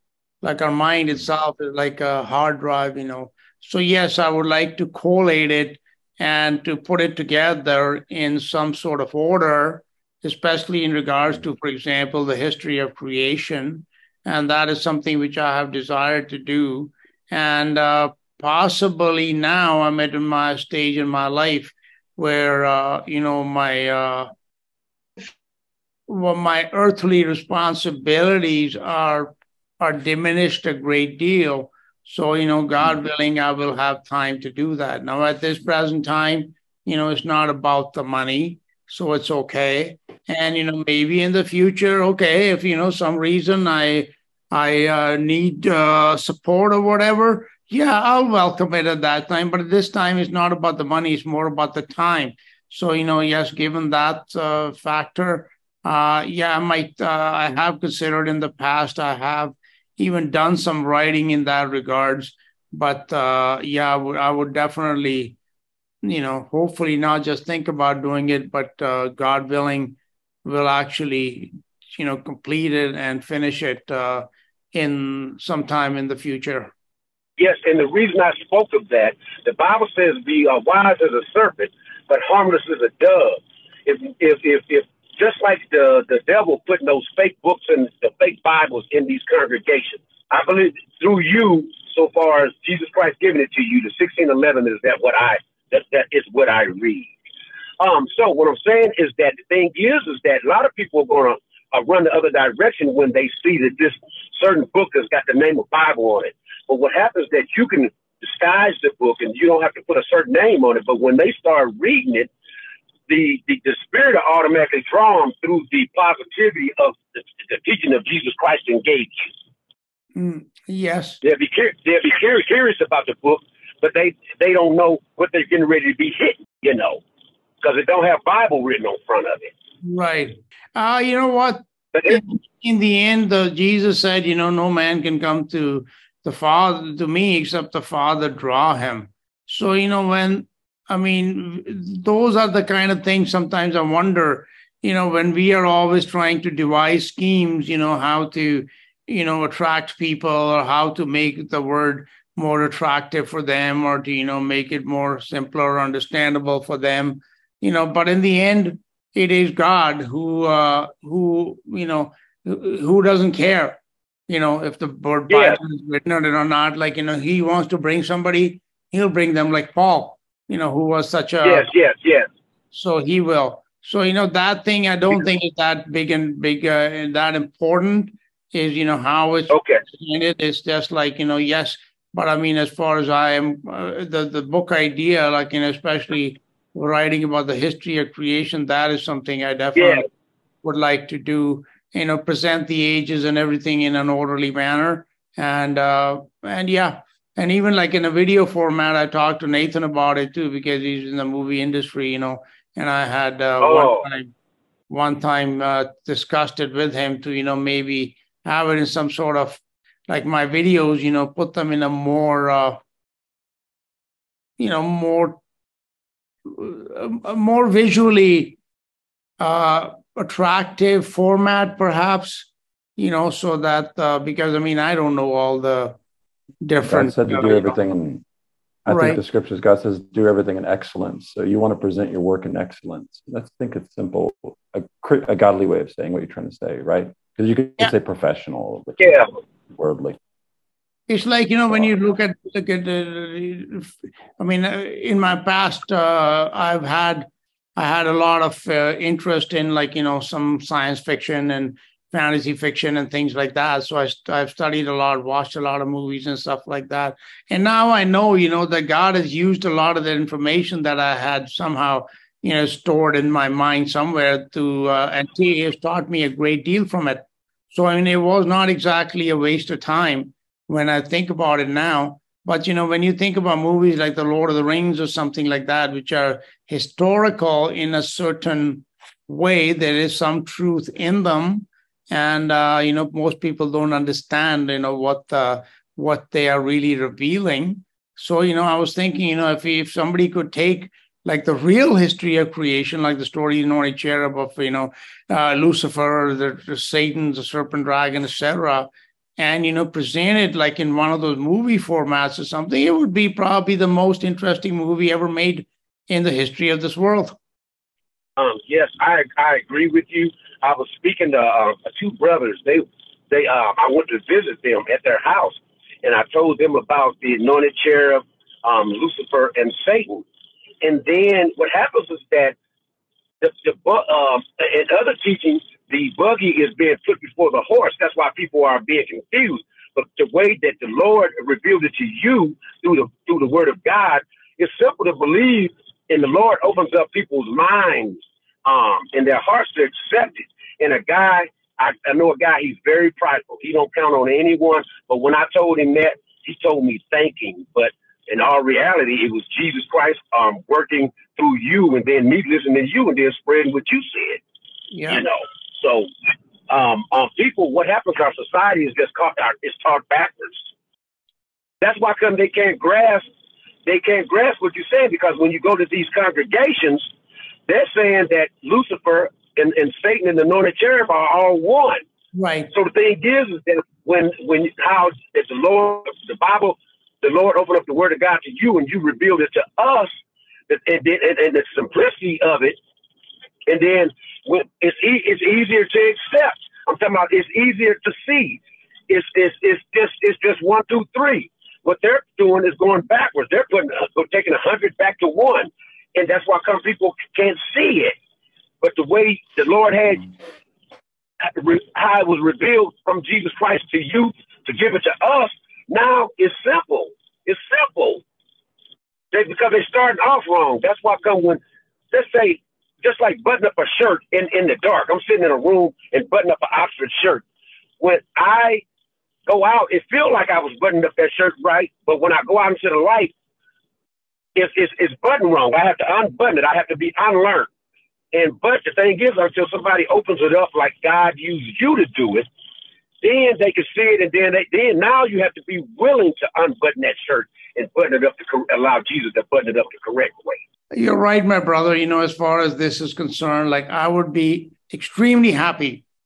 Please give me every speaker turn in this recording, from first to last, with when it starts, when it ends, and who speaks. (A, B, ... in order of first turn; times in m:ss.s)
0:00.4-0:24.3 A
0:26.1-1:05.4 A
1:06.0-1:16.7 A
1:17.4-1:37.1 B
1:37.8-1:52.3 B
1:53.1-1:59.3 B
2:00.2-2:01.2 A
2:01.2-2:07.0 B
2:07.6-2:09.5 B
2:09.8-2:51.7 A
2:11.9-2:12.2 B
2:45.3-2:45.6 B
2:51.4-2:52.3 B
2:52.7-3:10.1 A
2:59.5-2:59.8 B
3:09.8-3:10.0 B
3:10.6-3:24.3 A
3:23.6-3:24.1 B
3:24.9-3:32.8 A
3:34.6-3:35.4 A
3:36.5-3:38.6 A
3:39.4-3:46.0 A
3:46.6-3:47.8 A
3:46.8-3:48.2 C
3:48.8-3:59.1 C
3:48.9-3:49.2 A
3:59.0-3:59.3 B
3:59.8-4:00.2 C
4:01.1-5:07.4 A
5:08.4-5:20.2 B
5:20.8-5:22.6 B
5:23.4-5:54.4 B
5:54.9-5:55.2 A
5:55.1-5:56.1 B
5:56.7-6:00.6 B
6:01.8-6:03.3 B
6:03.9-6:07.1 B
6:07.7-6:12.0 B
6:12.4-6:12.7 A
6:12.7-6:20.1 B
6:20.7-6:22.8 B
6:23.7-6:38.2 B
6:38.8-6:40.3 B
6:41.6-6:48.2 B
6:49.3-6:51.6 B
6:52.1-6:57.4 B
6:58.0-6:58.8 B
6:59.5-7:03.3 B
7:04.6-7:07.7 B
7:08.3-7:12.5 B
7:13.2-7:20.6 B
7:20.9-7:26.0 A